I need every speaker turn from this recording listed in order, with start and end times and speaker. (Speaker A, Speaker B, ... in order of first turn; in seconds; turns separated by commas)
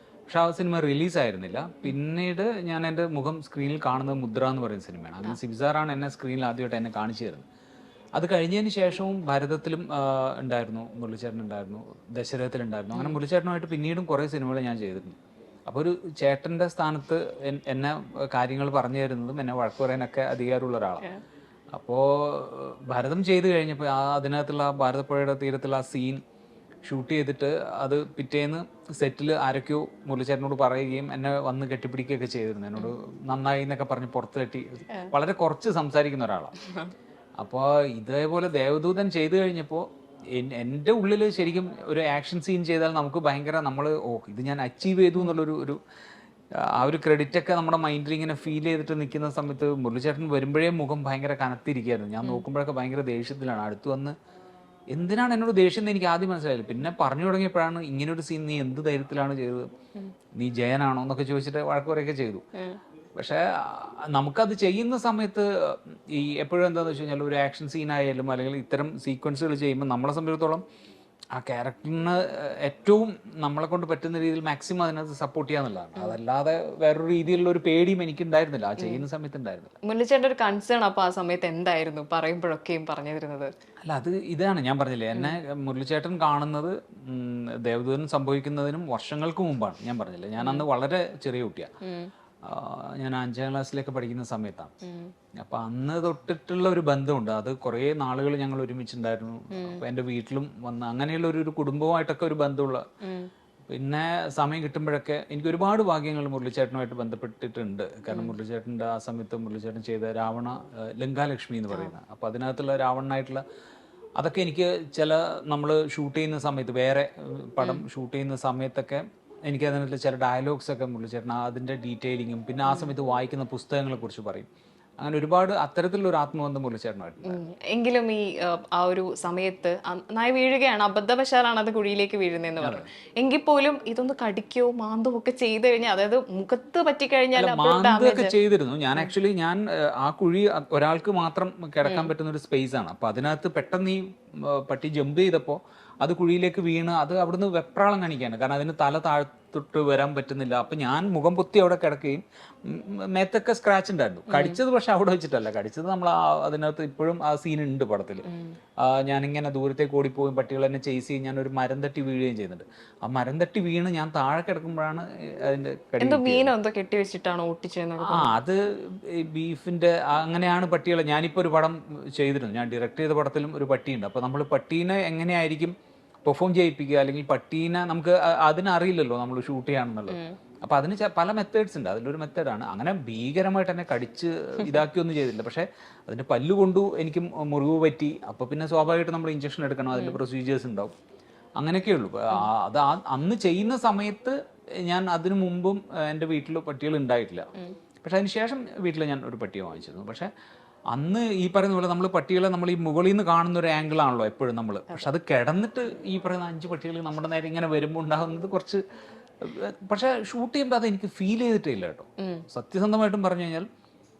Speaker A: 0.3-7.4, Speaker A: 8.1-15.2, Speaker B: 12.9-13.2, Speaker A: 15.7-21.1, Speaker A: 21.7-26.2, Speaker A: 26.8-36.5, Speaker B: 36.6-36.9, Speaker A: 37.4-45.8, Speaker A: 46.6-54.1, Speaker A: 54.9-59.6, Speaker A: 60.4-62.4, Speaker A: 63.1-70.6, Speaker A: 71.3-79.7, Speaker B: 79.8-83.5, Speaker A: 83.8-91.7, Speaker B: 90.4-90.6, Speaker B: 91.8-92.1, Speaker A: 92.4-94.7, Speaker B: 94.8-95.1, Speaker A: 95.4-102.8, Speaker B: 99.5-99.8, Speaker B: 103.0-103.3, Speaker A: 103.7-113.4, Speaker B: 108.1-108.3, Speaker A: 114.2-124.5, Speaker B: 122.7-122.9, Speaker A: 125.0-127.4, Speaker B: 127.2-138.3, Speaker A: 132.6-132.9, Speaker A: 137.3-158.2, Speaker B: 141.8-142.1, Speaker B: 154.3-154.6, Speaker B: 158.3-158.5, Speaker A: 158.8-166.5, Speaker B: 166.0-168.3, Speaker A: 168.0-175.7, Speaker A: 176.2-190.9, Speaker B: 180.1-180.4, Speaker A: 191.6-197.5, Speaker A: 198.0-200.3, Speaker A: 200.9-208.8, Speaker A: 209.4-213.6, Speaker B: 212.2-212.4